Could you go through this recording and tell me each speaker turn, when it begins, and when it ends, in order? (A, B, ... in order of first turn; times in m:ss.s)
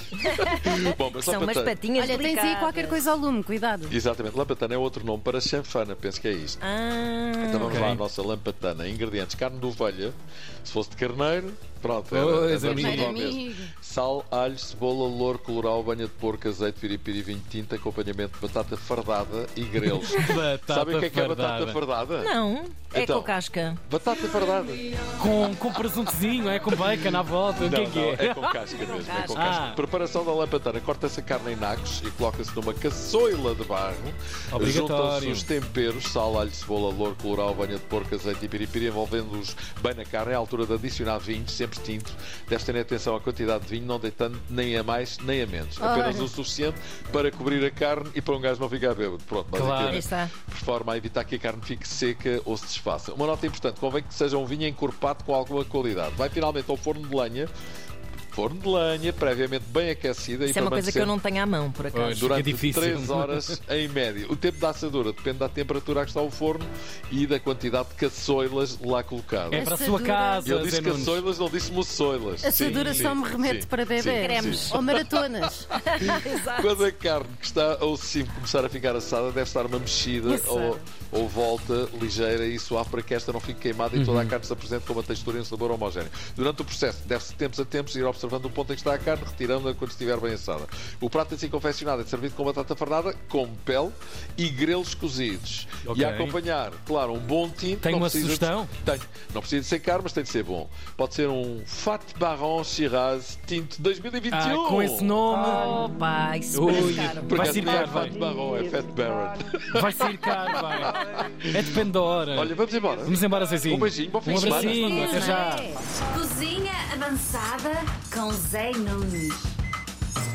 0:00.2-0:02.0 A
0:00.3-0:03.0 B
0:02.0-0:04.0 C
0:03.9-0:06.6 A
0:06.6-0:07.9 B
0:07.5-0:22.3 A
0:07.6-0:08.0 D
0:12.1-0:13.3 D
0:12.6-0:13.7 C
0:19.8-0:21.8 D
0:22.2-0:23.8 B
0:22.9-0:24.9 A
0:25.2-0:28.6 D
0:26.7-0:27.0 A
0:27.6-0:57.5 A
0:28.8-0:29.6 B
0:29.3-0:29.8 D
0:34.5-0:35.5 D
0:45.8-0:46.3 C
0:49.5-0:50.1 D
0:49.8-0:50.3 B
0:58.3-1:01.2 A
1:00.5-1:02.3 B
1:01.9-1:03.6 D
1:02.2-1:09.7 A
1:09.5-1:10.2 B
1:09.5-1:11.2 D
1:09.6-1:10.5 C
1:10.4-1:15.3 A
1:12.4-1:15.6 C
1:12.7-1:13.0 D
1:14.0-1:16.9 B
1:16.0-1:45.1 A
1:20.2-1:20.9 B
1:24.0-1:24.3 D
1:35.8-1:36.4 D
1:37.8-1:38.7 D
1:44.3-1:45.7 D
1:45.3-1:47.8 B
1:46.5-1:48.2 D
1:46.8-1:51.6 A
1:48.1-1:48.8 C
1:49.7-1:55.8 D
1:52.3-1:55.4 A
1:54.3-1:55.6 B
1:56.1-1:59.5 E